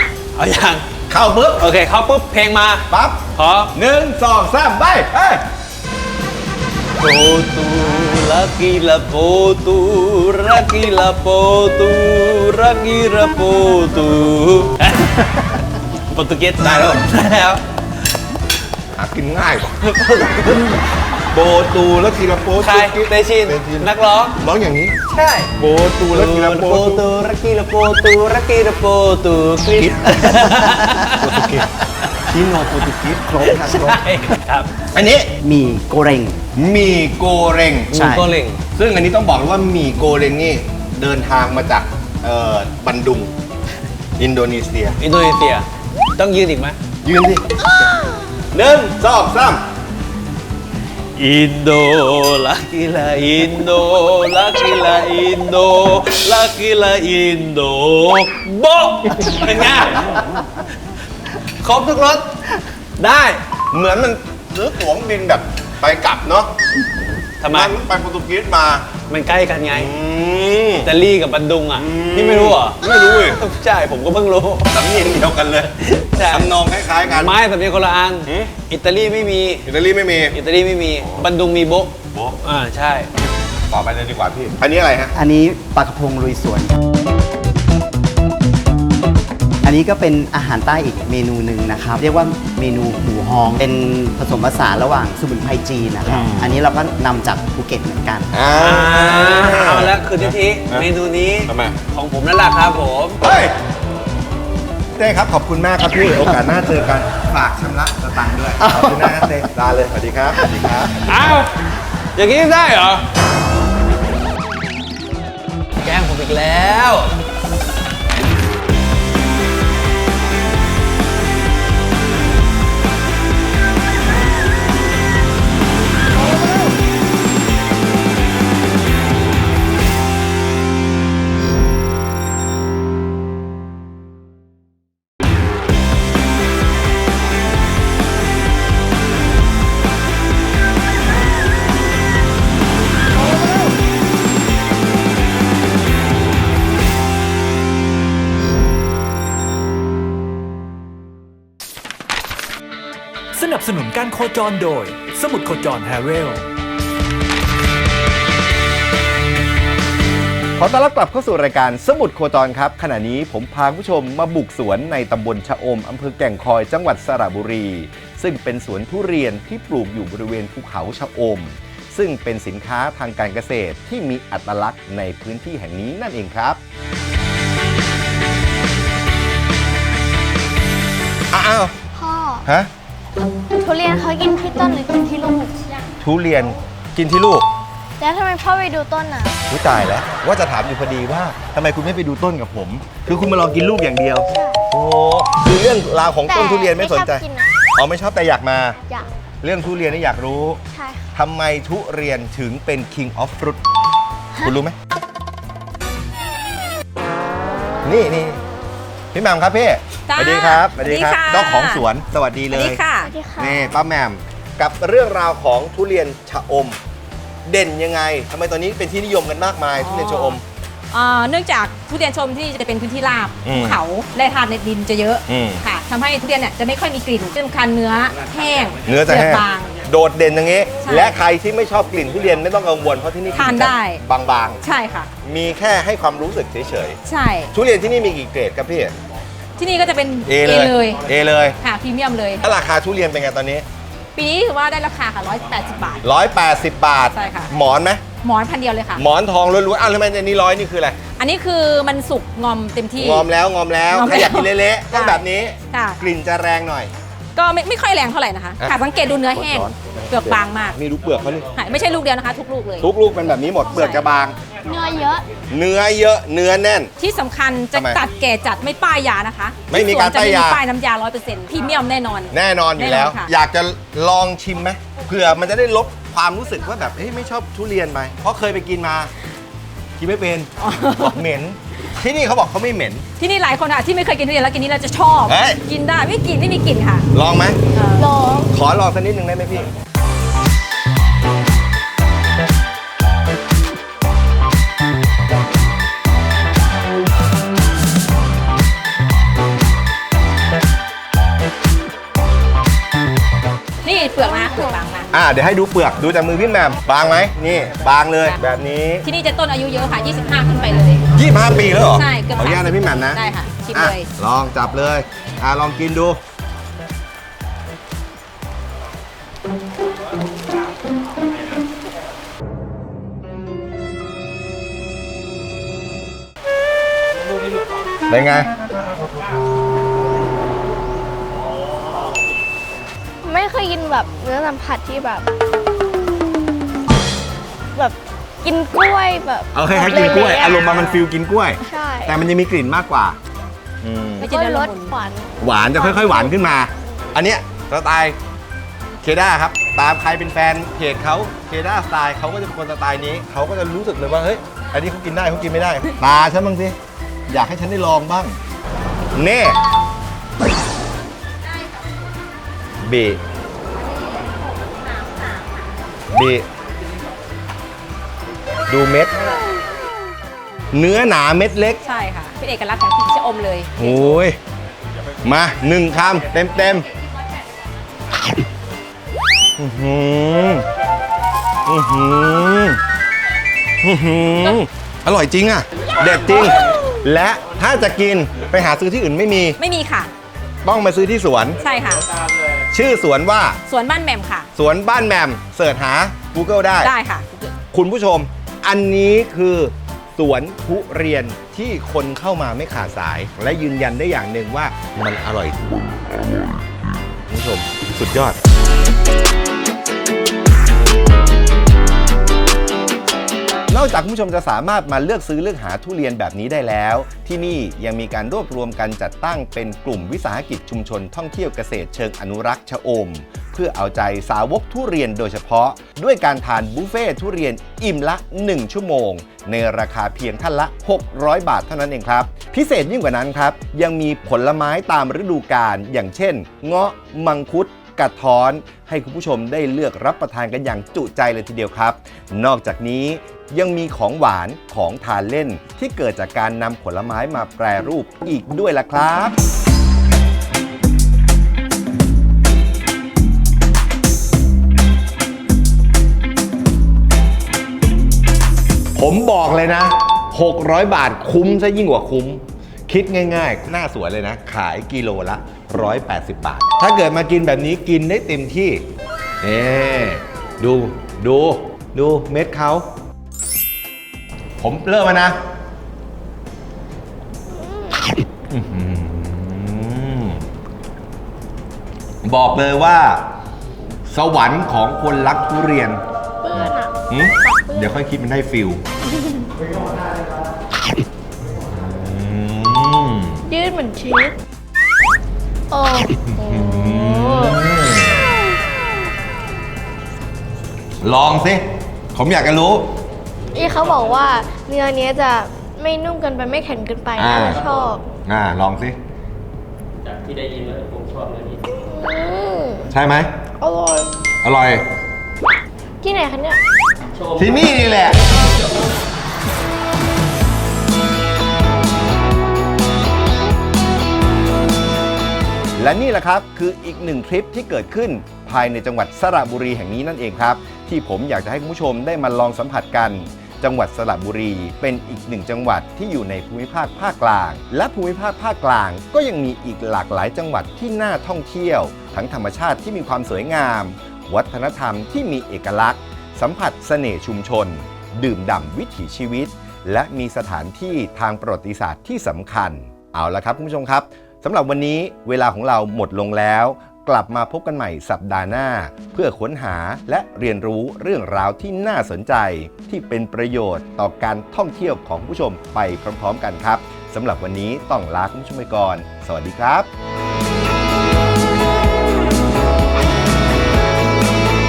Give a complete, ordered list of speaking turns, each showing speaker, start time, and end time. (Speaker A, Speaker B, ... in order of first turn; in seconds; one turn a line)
Speaker A: 0.3-0.8
Speaker B: 1.1-1.6
Speaker A: 1.6-3.7
Speaker B: 2.9-5.4
Speaker A: 7.0-15.6
Speaker A: 16.1-17.6
Speaker B: 16.6-17.0
Speaker B: 18.9-20.6
Speaker A: 19.9-21.0
Speaker B: 21.3-25.0
Speaker A: 22.6-24.4
Speaker A: 25.1-25.5
Speaker B: 25.6-27.1
Speaker A: 26.1-32.2
Speaker B: 29.7-30.5
Speaker B: 31.1-31.7
Speaker B: 32.3-34.0
Speaker A: 33.4-34.7
Speaker B: 34.9-35.3
Speaker C: 35.4-36.4
Speaker B: 36.5-37.9
Speaker A: 37.9-38.6
Speaker C: 37.9-38.2
Speaker B: 38.7-43.3
Speaker B: 44.2-45.0
Speaker A: 45.0-45.6
Speaker A: 46.2-46.8
Speaker B: 47.0-47.5
Speaker B: 48.5-49.6
Speaker A: 51.1-60.6
Speaker A: 61.6-63.4
Speaker B: 63.7-66.5
Speaker A: 67.4-67.7
Speaker B: 67.5-68.9
Speaker A: 69.1-69.9
Speaker B: 69.7-70.9
Speaker A: 70.8-74.7
Speaker B: 71.7-73.4
Speaker B: 74.7-75.7
Speaker A: 75.8-76.5
Speaker B: 76.3-77.3
Speaker A: 77.0-79.7
Speaker B: 78.2-78.5
Speaker B: 79.7-80.4
Speaker A: 80.3-83.1
Speaker B: 81.0-81.3
Speaker B: 82.1-82.4
Speaker B: 83.7-85.1
Speaker C: 85.1-86.8
Speaker C: 89.6-98.3
Speaker B: 96.0-96.6
Speaker B: 98.3-100.9
Speaker A: 98.6-103.2
Speaker B: 101.5-101.8
Speaker B: 103.2-103.6
Speaker B: 105.0-111.2
Speaker C: 108.6-109.2
Speaker A: 111.0-111.5
Speaker A: 112.2-113.0
Speaker A: 115.8-117.2
Speaker D: 153.3-156.4
Speaker B: 160.6-176.6
Speaker B: 181.3-181.7
Speaker E: 181.9-182.4
Speaker B: 182.4-182.7
Speaker E: 183.6-185.8
Speaker B: 186.0-187.5
Speaker E: 188.0-189.4
Speaker B: 189.5-198.8
Speaker E: 194.3-194.6
Speaker E: 196.3-197.6
Speaker B: 199.4-200.6
Speaker E: 200.7-201.0
Speaker B: 201.1-203.6
Speaker B: 204.4-204.8
Speaker B: 207.8-208.4
Speaker B: 209.1-212.8
Speaker F: 210.1-211.8
Speaker F: 212.5-213.1
Speaker E: 213.0-213.7
Speaker B: 213.3-216.8
Speaker B: 217.4-220.4
Speaker F: 219.8-220.4
Speaker F: 220.9-229.8
Speaker B: 223.4-223.8
Speaker B: 225.3-225.6
Speaker B: 228.8-234.6
Speaker F: 230.8-231.2
Speaker F: 233.3-234.0
Speaker F: 234.6-235.1
Speaker B: 235.2-237.0
Speaker F: 237.1-237.5
Speaker B: 237.5-238.9
Speaker F: 239.6-241.0
Speaker B: 240.2-241.6
Speaker F: 241.6-242.4
Speaker B: 242.4-243.6
Speaker F: 244.1-246.0
Speaker B: 246.0-248.0
Speaker F: 247.1-247.5
Speaker F: 248.2-249.0
Speaker B: 248.9-251.0
Speaker F: 251.2-253.2
Speaker B: 253.0-256.9
Speaker F: 253.9-256.0
Speaker F: 257.4-260.8
Speaker B: 259.3-261.5
Speaker F: 261.6-262.9
Speaker B: 262.8-264.4
Speaker F: 263.7-264.0
Speaker E: 264.6-265.2
Speaker B: 265.5-266.9
Speaker F: 267.0-273.3
Speaker B: 267.7-268.0
Speaker B: 269.7-270.6
Speaker B: 272.3-279.1
Speaker B: 280.0-283.0
Speaker F: 280.6-281.1
Speaker F: 283.2-287.1
Speaker B: 285.3-285.6
Speaker B: 287.1-287.6
Speaker F: 287.7-288.1
Speaker E: 287.9-288.5
Speaker B: 288.5-289.7
Speaker F: 303.8-305.1
Speaker B: 305.1-309.1
Speaker F: 309.0-311.0
Speaker B: 311.1-316.2
Speaker F: 311.9-314.1
Speaker B: 328.1-328.5
Speaker E: 333.2-335.3
Speaker E: 337.8-341.0
Speaker B: 339.5-343.2
Speaker E: 341.6-342.2
Speaker B: 343.8-344.3
Speaker F: 344.2-344.9
Speaker E: 344.2-347.0
Speaker B: 345.4-348.2
Speaker B: 349.0-356.8
Speaker B: 357.3-358.4
Speaker B: 359.1-359.6
Speaker B: 362.8-363.2
Speaker B: 366.1-366.4
Speaker B: 368.7-369.4
Speaker B: 370.7-371.8
Speaker F: 371.9-373.9
Speaker B: 373.8-374.4
Speaker B: 375.2-376.9
Speaker B: 379.6-380.6
Speaker B: 381.6-382.8
Speaker B: 383.8-389.6
Speaker F: 389.6-390.1
Speaker B: 390.6-391.6
Speaker F: 391.6-392.1
Speaker B: 392.7-393.6
Speaker F: 393.7-394.5
Speaker B: 394.6-396.9
Speaker F: 396.8-397.5
Speaker B: 397.7-405.8
Speaker B: 407.3-408.4
Speaker B: 413.7-449.4
Speaker B: 458.9-468.9
Speaker B: 469.4-472.9
Speaker B: 474.6-475.4
Speaker E: 477.5-478.1
Speaker B: 478.5-480.4
Speaker B: 482.2-483.2
Speaker B: 484.1-486.0
Speaker E: 486.4-487.9
Speaker B: 486.6-488.8
Speaker B: 491.6-493.4
Speaker E: 493.5-494.4
Speaker E: 495.7-497.6
Speaker B: 496.3-498.3
Speaker B: 501.0-502.9
Speaker E: 503.5-508.0
Speaker B: 507.1-507.6
Speaker B: 508.2-509.0
Speaker E: 511.6-512.9
Speaker B: 512.9-513.3
Speaker E: 513.6-514.1
Speaker B: 514.4-514.8
Speaker E: 516.0-516.6
Speaker B: 517.3-518.3
Speaker B: 525.8-569.9